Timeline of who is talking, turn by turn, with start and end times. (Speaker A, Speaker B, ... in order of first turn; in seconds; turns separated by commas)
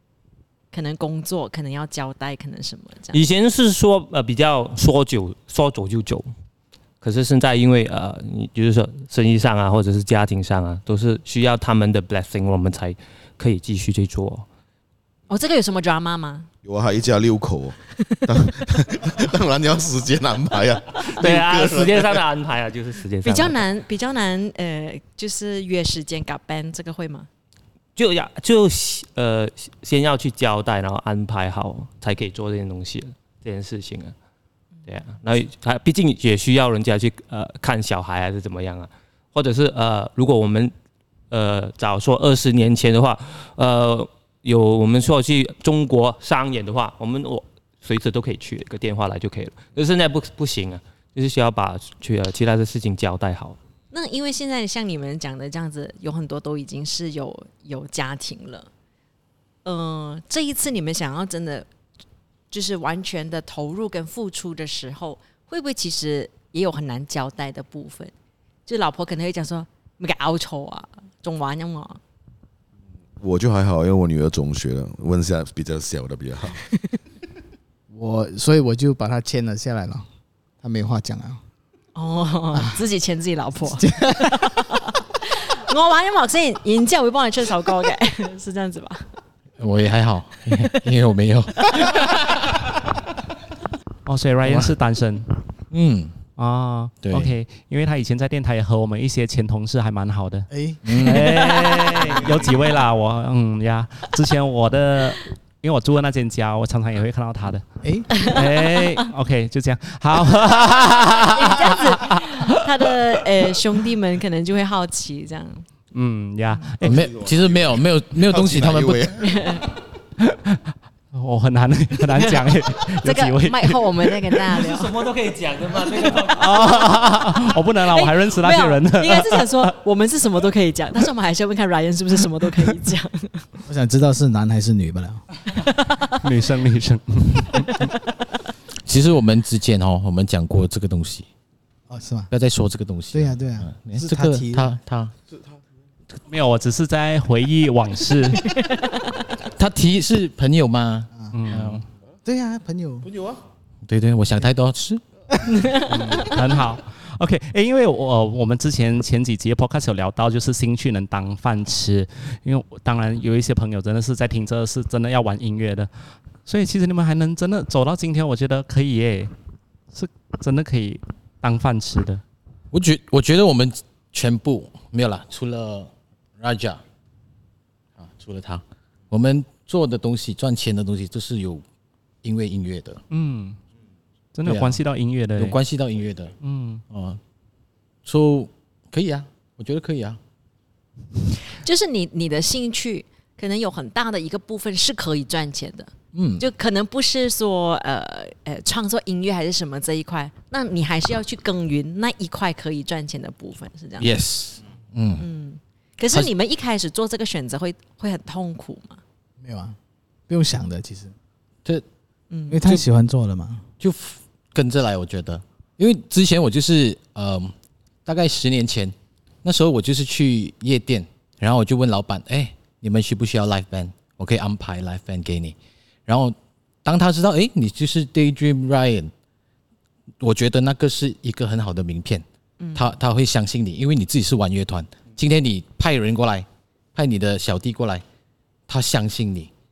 Speaker A: 0.7-3.2, Speaker B: 3.1-6.3, Speaker B: 7.0-14.4, Speaker A: 15.3-16.5, Speaker C: 16.6-22.2, Speaker B: 21.0-23.6, Speaker A: 23.2-27.3, Speaker B: 27.9-34.1, Speaker B: 34.9-40.7, Speaker B: 41.3-53.6, Speaker A: 53.9-58.7, Speaker A: 59.6-61.7, Speaker A: 62.5-68.1, Speaker A: 68.7-72.0, Speaker C: 73.2-76.6, Speaker D: 77.9-80.0, Speaker D: 80.6-81.4, Speaker A: 81.9-89.1, Speaker D: 83.8-84.5, Speaker E: 89.6-92.7, Speaker F: 94.0-95.4, Speaker E: 94.4-94.7, Speaker E: 95.7-96.2, Speaker F: 96.4-112.7, Speaker E: 97.0-97.3, Speaker D: 100.5-101.2, Speaker E: 100.8-101.7, Speaker D: 107.8-108.2, Speaker A: 108.1-109.0, Speaker A: 111.1-115.6, Speaker F: 115.9-117.0, Speaker E: 116.8-119.0, Speaker C: 116.8-119.4, Speaker A: 119.2-119.7, Speaker F: 120.2-120.6, Speaker F: 121.1-124.4, Speaker A: 122.1-124.9, Speaker B: 124.6-126.9, Speaker F: 126.2-129.7, Speaker A: 127.9-133.4, Speaker D: 133.7-135.4, Speaker F: 136.1-137.9, Speaker E: 138.8-141.3, Speaker D: 141.9-142.3, Speaker E: 142.3-145.1, Speaker D: 143.1-144.7, Speaker F: 146.3-148.6, Speaker A: 148.6-149.2, Speaker E: 149.4-151.8, Speaker F: 151.3-151.8, Speaker D: 152.2-153.1, Speaker E: 153.8-155.0, Speaker F: 155.8-165.9, Speaker F: 166.4-169.3, Speaker F: 169.9-172.2, Speaker E: 172.7-176.8, Speaker E: 178.0-181.6, Speaker E: 182.2-183.0, Speaker F: 183.1-183.6, Speaker F: 184.3-185.6, Speaker E: 184.4-184.8, Speaker E: 185.3-186.3, Speaker F: 186.4-186.8, Speaker E: 186.9-187.2, Speaker E: 188.0-190.2, Speaker A: 191.5-204.1, Speaker E: 196.1-196.4, Speaker E: 204.0-205.3, Speaker A: 205.2-209.0, Speaker D: 209.4-209.8, Speaker D: 210.3-211.1, Speaker A: 212.3-212.6, Speaker D: 212.5-213.6, Speaker E: 213.8-217.5, Speaker E: 218.0-225.6, Speaker E: 226.1-229.1, Speaker E: 230.2-238.0, Speaker A: 232.6-232.9, Speaker E: 238.7-239.5